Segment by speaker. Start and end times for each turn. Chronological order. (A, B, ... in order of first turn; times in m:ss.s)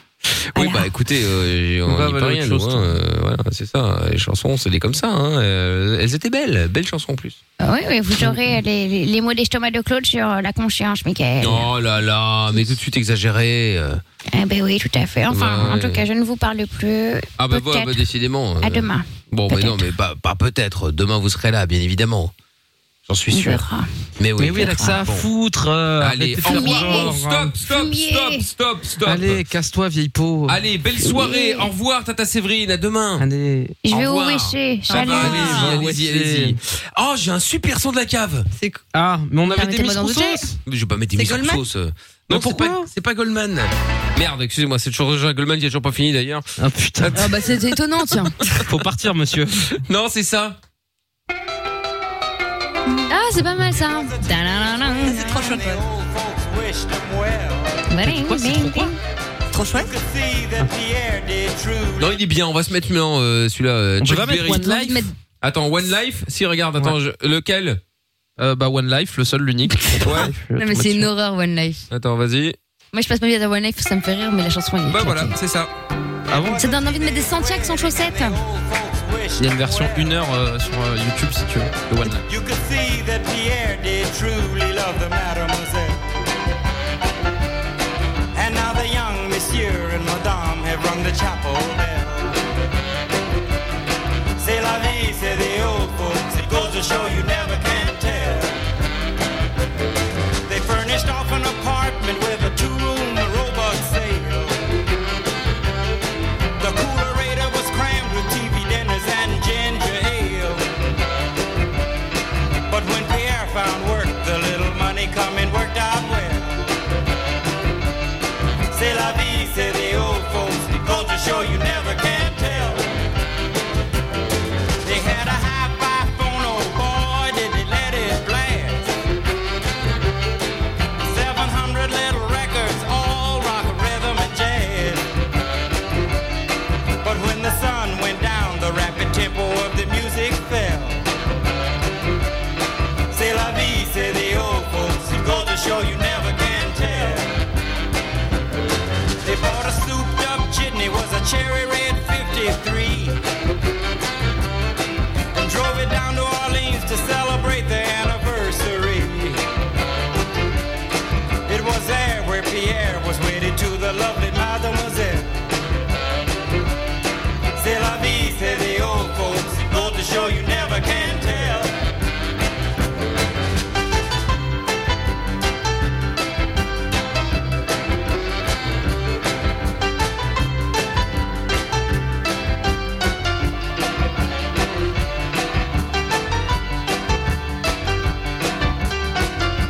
0:00.5-0:07.4 A
0:00.6-0:00.9 B
0:01.9-0:02.9 C
0:07.6-0:11.7 B
0:11.4-0:14.0 A
0:14.3-0:18.0 B
0:15.3-0:16.0 A
0:17.4-0:22.3 A
0:18.6-0:19.9 B
0:23.1-0:23.6 A
0:23.3-0:23.9 B
0:24.2-0:25.3 A
0:24.4-0:27.6 C
0:24.6-0:25.0 B
0:26.0-0:29.4 A
0:26.4-0:28.4 B
0:29.0-0:30.6 C
0:30.5-0:33.2 A
0:31.0-0:31.7 B
0:33.2-0:33.8 C
0:33.8-0:35.6 B
0:33.9-0:38.5 A
0:34.9-0:35.8 D
0:35.0-0:36.6 C
0:38.6-0:38.8 D
0:38.9-0:40.6 C
0:39.5-0:40.5 E
0:40.6-0:46.5 A
0:41.1-0:41.6 D
0:42.3-0:42.9 C
0:46.6-0:47.4 C
0:47.0-0:47.3 A
0:47.1-0:48.4 E
0:48.6-0:49.7 C
0:49.8-0:50.6 A
0:53.1-0:55.5 E
0:53.7-0:57.8 F
0:54.8-0:55.8 D
0:58.0-0:59.0 B
0:58.0-0:58.9 C
0:59.5-0:59.9 D
0:59.7-1:02.2 F
1:02.0-1:04.6 A
1:04.0-1:05.1 C
1:04.4-1:05.1 E
1:05.4-1:07.8 A
1:08.4-1:11.1 C
1:10.0-1:10.3 A
1:10.6-1:11.8 E
1:11.9-1:12.6 A
1:12.9-1:15.3 E
1:14.9-1:15.7 A
1:16.3-1:20.1 F
1:16.3-1:16.7 C
1:16.6-1:18.4 E
1:19.4-1:22.2 C
1:22.3-1:26.2 F
1:28.3-1:32.4 F
1:34.4-1:38.5 F
1:40.5-1:44.5 F
1:46.6-1:50.6 F
1:52.7-1:56.7 F
1:58.7-2:02.8 F
2:04.8-2:08.9 F
2:11.0-2:15.0 F
2:17.0-2:21.0 F
2:23.1-2:27.3 F
2:29.2-2:33.2 F
2:35.3-2:39.4 F
2:41.5-2:45.5 F
2:47.6-2:51.7 F